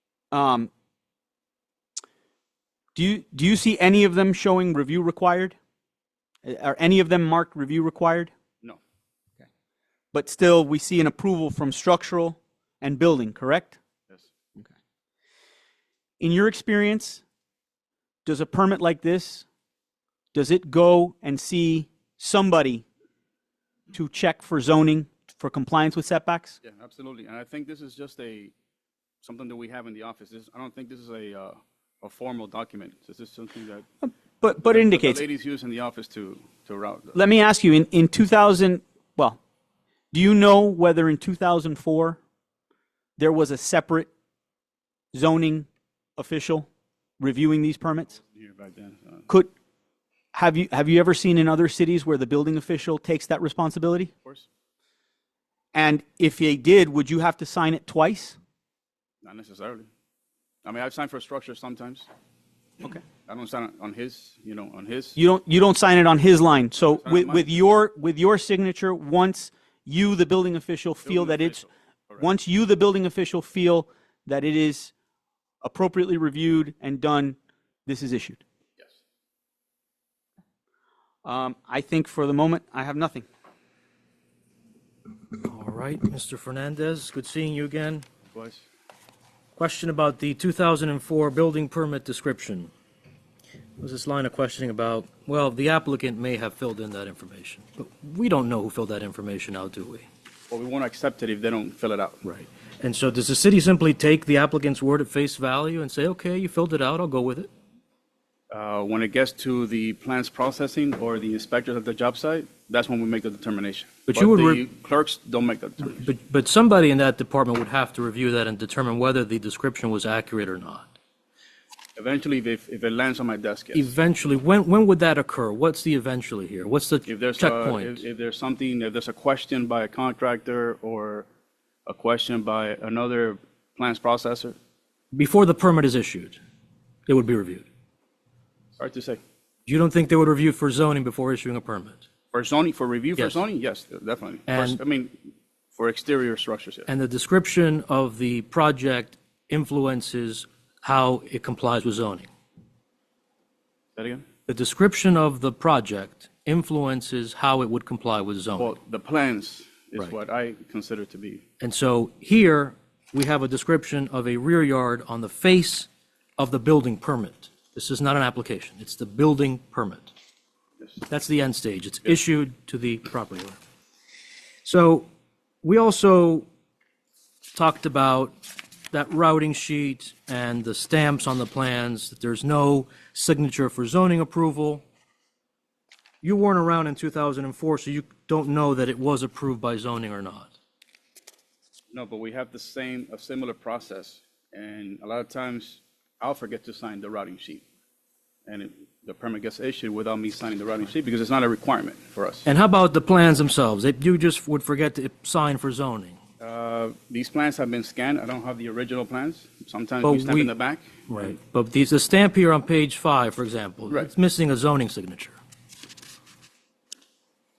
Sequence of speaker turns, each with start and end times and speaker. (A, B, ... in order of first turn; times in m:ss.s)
0:00.3-0:00.7 A
0:03.0-0:05.6 A
0:06.4-0:08.3 A
0:10.1-0:13.8 A
0:16.2-0:17.2 A
0:18.2-0:19.5 A
0:20.3-0:22.8 A
0:23.9-0:26.6 A
0:26.6-0:28.5 B
0:29.2-0:33.9 B
0:34.0-0:35.2 A
0:34.6-0:37.2 B
0:37.1-0:39.4 A
0:40.1-0:42.2 A
0:43.2-0:44.1 A
0:45.1-0:46.7 A
0:47.2-0:48.2 A
0:48.2-0:49.3 B
0:50.3-0:54.1 A
0:55.7-0:58.4 A
0:59.2-0:59.9 B
1:00.6-1:02.1 B
1:03.3-1:05.2 B
1:05.2-1:11.6 A
1:06.8-1:07.6 B
1:11.1-1:12.3 B
1:12.2-1:14.9 A
1:15.6-1:18.4 A
1:21.2-1:23.3 A
1:25.4-1:28.0 C
1:28.3-1:28.6 B
1:29.6-1:32.7 C
1:33.8-1:40.1 C
1:40.5-1:42.2 B
1:42.2-1:47.5 C
1:48.5-1:56.0 B
1:54.1-1:54.6 C
1:56.0-2:01.0 C
2:02.0-2:03.9 B
2:03.7-2:08.0 C
2:07.1-2:11.3 B
2:11.9-2:14.6 B
2:15.1-2:16.4 C
2:17.1-2:17.7 C
2:18.8-2:19.2 B
2:19.7-2:22.0 C
2:22.3-2:25.2 B
2:24.5-2:24.8 C
2:25.7-2:26.9 B
2:26.9-2:32.3 C
2:34.0-2:34.2 B
2:34.5-2:38.7 C
2:38.6-2:41.4 B
2:41.6-2:50.1 C
2:51.1-2:53.6 C
2:54.6-2:55.1 C
2:55.6-2:56.5 C
2:57.6-2:58.4 C
2:58.9-3:04.8 C
3:06.2-3:10.5 C
3:11.9-3:17.6 B
3:18.5-3:22.5 B
3:22.4-3:26.2 C
3:26.4-3:31.4 B
3:30.0-3:30.5 C
3:31.1-3:35.4 C